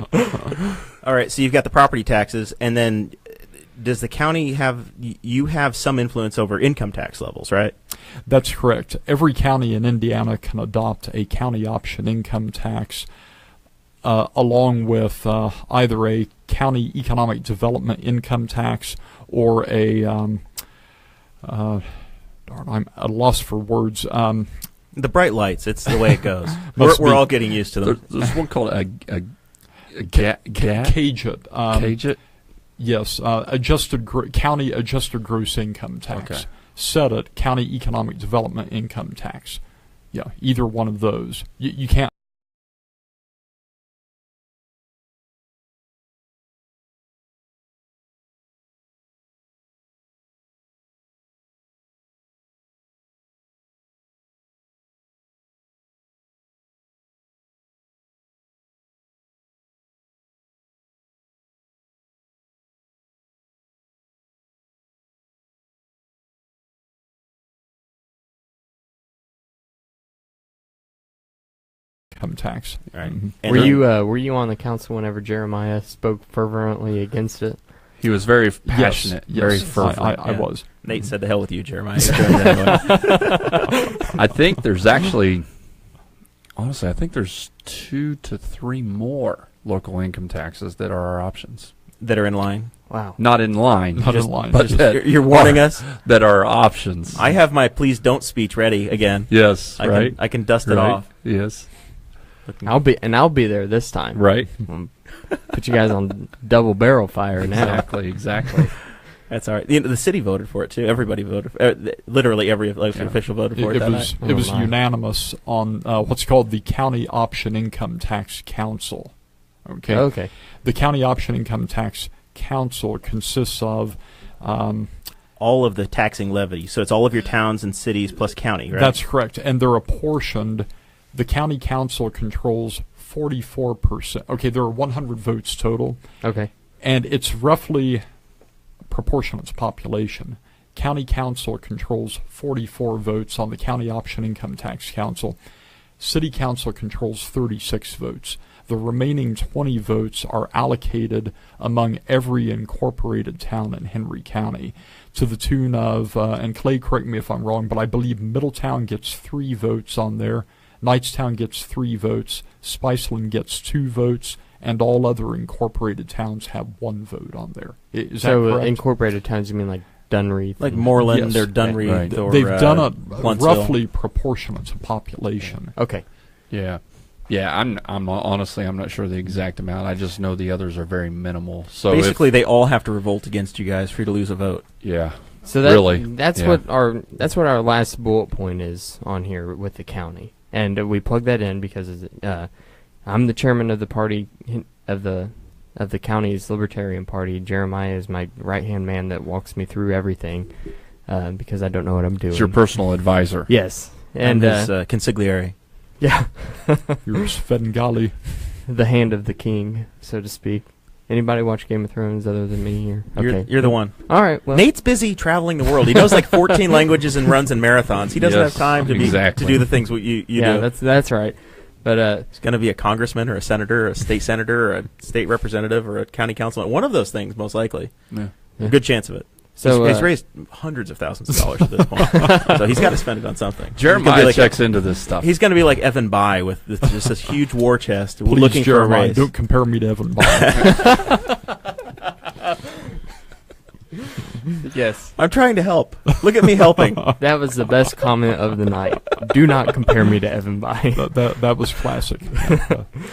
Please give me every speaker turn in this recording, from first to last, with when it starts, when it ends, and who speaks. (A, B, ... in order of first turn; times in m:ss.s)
0:01.0-0:07.7 A
0:08.2-0:13.1 B
0:14.0-0:20.8 B
0:21.4-0:24.9 B
0:24.9-0:28.0 A
0:26.7-0:27.3 B
0:27.1-0:31.1 C
0:30.1-0:32.2 B
0:31.7-0:32.2 C
0:32.8-0:42.1 B
0:36.1-0:36.4 C
1:12.1-1:13.8 B
1:12.9-1:13.9 A
1:13.4-1:17.7 D
1:18.0-1:20.2 C
1:18.6-1:20.7 B
1:20.2-1:23.5 A
1:22.3-1:23.7 D
1:24.2-1:25.5 C
1:26.6-1:31.7 C
1:32.0-1:32.7 A
1:32.9-1:33.2 D
1:33.2-1:37.3 C
1:33.9-1:34.9 B
1:34.0-1:34.8 D
1:34.7-1:35.8 A
1:37.1-1:41.1 A
1:39.3-1:41.7 C
1:42.5-1:42.8 A
1:42.6-1:48.5 D
1:44.1-1:44.7 C
1:47.5-1:48.7 C
1:49.3-1:54.1 A
1:53.4-2:05.1 B
1:54.2-1:54.7 D
1:59.9-2:00.3 D
2:05.4-2:09.0 A
2:08.7-2:18.0 B
2:16.2-2:16.5 D
2:18.9-2:25.4 B
2:26.0-2:48.8 B
2:48.2-2:51.8 D
2:50.6-2:53.8 A
2:51.0-2:55.8 B
2:51.8-2:52.1 C
2:55.7-2:56.0 D
2:56.5-3:02.2 C
3:01.9-3:04.7 A
3:04.8-3:06.6 C
3:05.4-3:24.7 D
3:22.3-3:23.5 C
3:24.2-3:25.6 A
3:26.0-3:26.9 D
3:27.0-3:28.4 B
3:28.6-3:35.4 D
3:33.2-3:40.7 A
3:38.2-3:39.7 C
3:40.3-3:42.4 D
3:42.4-3:59.3 A
3:48.6-3:50.2 D
3:53.8-3:55.3 C
3:58.2-4:01.0 B
4:00.3-4:00.6 A
4:04.6-4:05.1 D
4:05.1-4:07.1 A
4:07.2-4:11.6 D
4:10.9-4:13.0 B